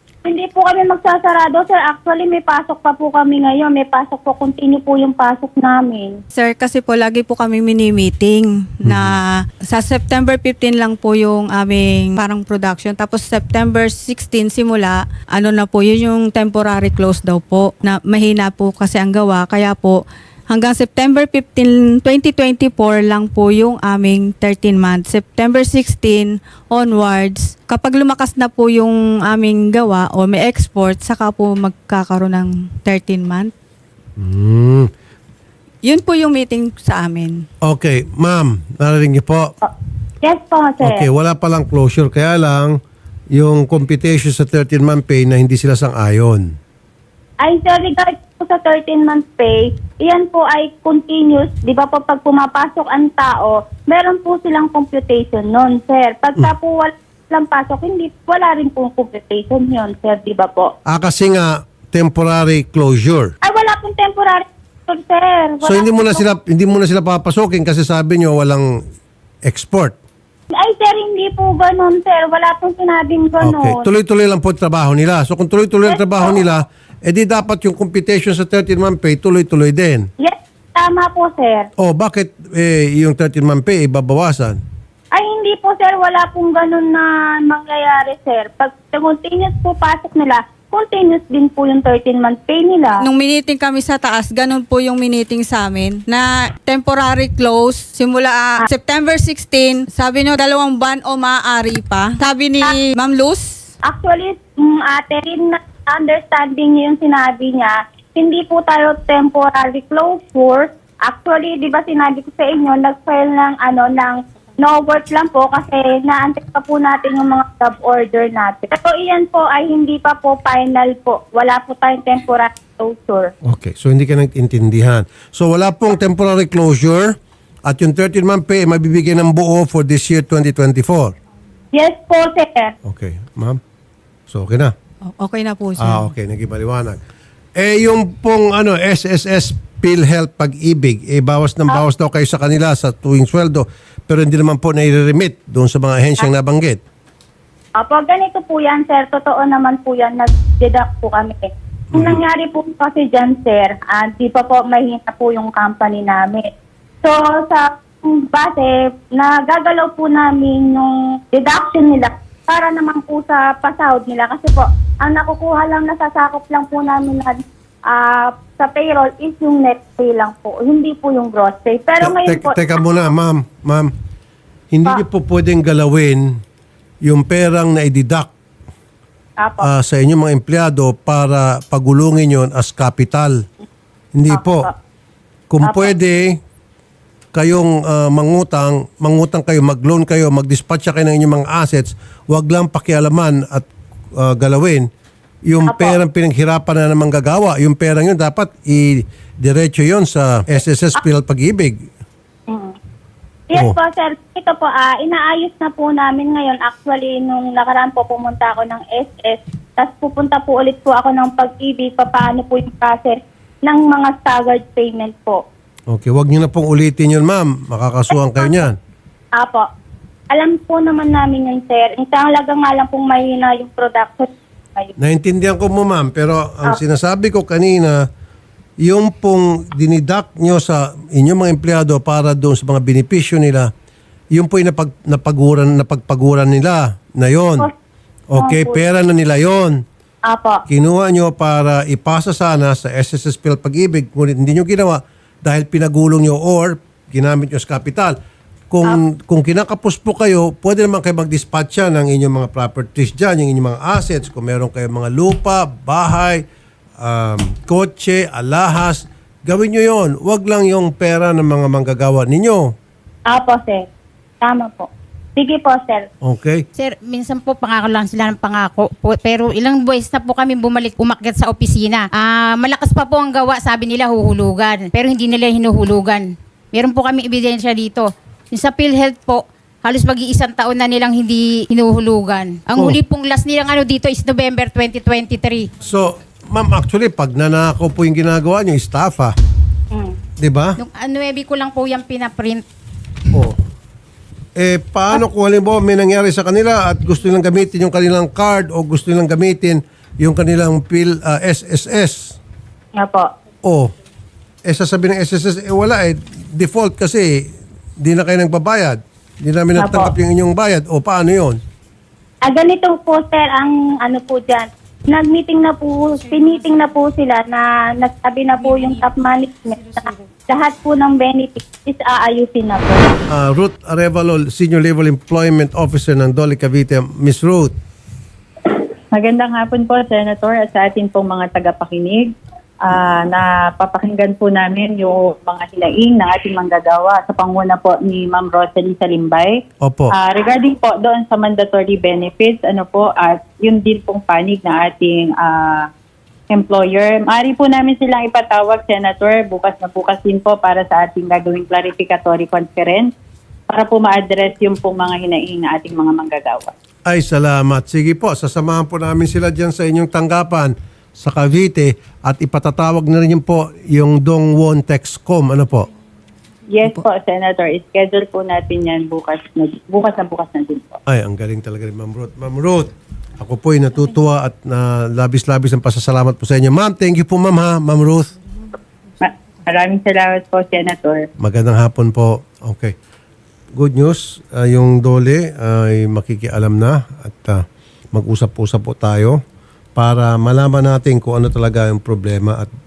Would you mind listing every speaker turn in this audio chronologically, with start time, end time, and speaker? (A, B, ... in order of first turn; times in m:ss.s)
0:00.2-0:06.2 A
0:06.3-0:33.5 B
0:08.8-0:09.2 C
0:34.2-0:34.9 C
0:35.8-0:37.4 B
0:37.6-0:39.5 C
0:39.6-0:41.0 A
0:40.8-0:42.8 C
0:43.3-0:46.5 C
0:47.4-1:00.7 A
1:00.9-1:03.3 C
1:03.4-1:06.2 A
1:05.6-1:08.7 C
1:09.4-1:10.0 C
1:10.5-1:13.8 A
1:13.4-1:20.1 C
1:15.9-1:16.4 A
1:20.2-1:21.7 A
1:21.8-1:24.6 C
1:25.1-1:33.0 A
1:33.0-1:43.7 B
1:43.8-2:03.3 A
2:03.4-2:11.1 C
2:11.7-2:12.7 A
2:12.8-2:13.6 C
2:14.3-2:14.7 C
2:15.1-2:16.1 B
2:15.8-2:17.0 C
2:17.6-2:26.8 C
2:27.8-2:31.4 A
2:31.9-2:36.4 A
2:31.9-2:32.2 C
2:37.0-2:52.8 A
2:52.0-2:53.9 C
2:54.7-2:56.3 C
2:57.0-2:58.3 C
2:59.4-2:59.7 A
2:59.6-3:03.4 C
3:04.1-3:04.7 C
3:04.3-3:04.7 A
3:05.5-3:06.4 C
3:05.6-3:05.9 A
3:07.3-3:14.9 C
3:15.4-3:21.8 C
3:15.6-3:16.0 A
3:22.5-3:22.7 A
3:23.5-3:35.4 A
3:35.9-3:38.7 C
3:38.4-3:38.6 A
3:39.4-3:39.6 A
3:40.3-3:44.9 A
3:45.0-3:48.0 C
3:48.8-3:53.7 C
3:54.3-3:57.7 C
3:58.3-3:59.8 C
3:58.4-3:58.8 A
4:00.2-4:00.6 A
4:00.7-4:08.2 C
4:08.7-4:16.4 C
4:17.0-4:22.7 C
4:23.3-4:23.8 A
4:24.4-4:26.0 A
4:26.2-4:26.6 C
4:26.8-4:45.7 D
4:45.8-4:49.3 C
4:50.4-4:50.8 C
4:50.8-4:52.6 D
4:54.6-5:02.4 C
5:03.0-5:03.3 A
5:03.6-5:03.9 C
5:04.6-5:07.3 C
5:08.0-5:11.6 C
5:09.8-5:10.1 A
5:12.4-5:23.2 A
5:23.3-5:27.7 C
5:28.7-5:39.6 E
5:39.8-5:40.1 C
5:40.2-5:45.9 E
5:46.5-5:53.1 E
5:53.7-5:56.7 E
5:57.1-6:05.9 C
6:06.7-6:11.0 E
6:11.1-6:18.3 C
6:19.2-6:21.3 E
6:21.4-6:22.9 C
6:23.7-6:29.4 C
6:30.0-6:32.7 C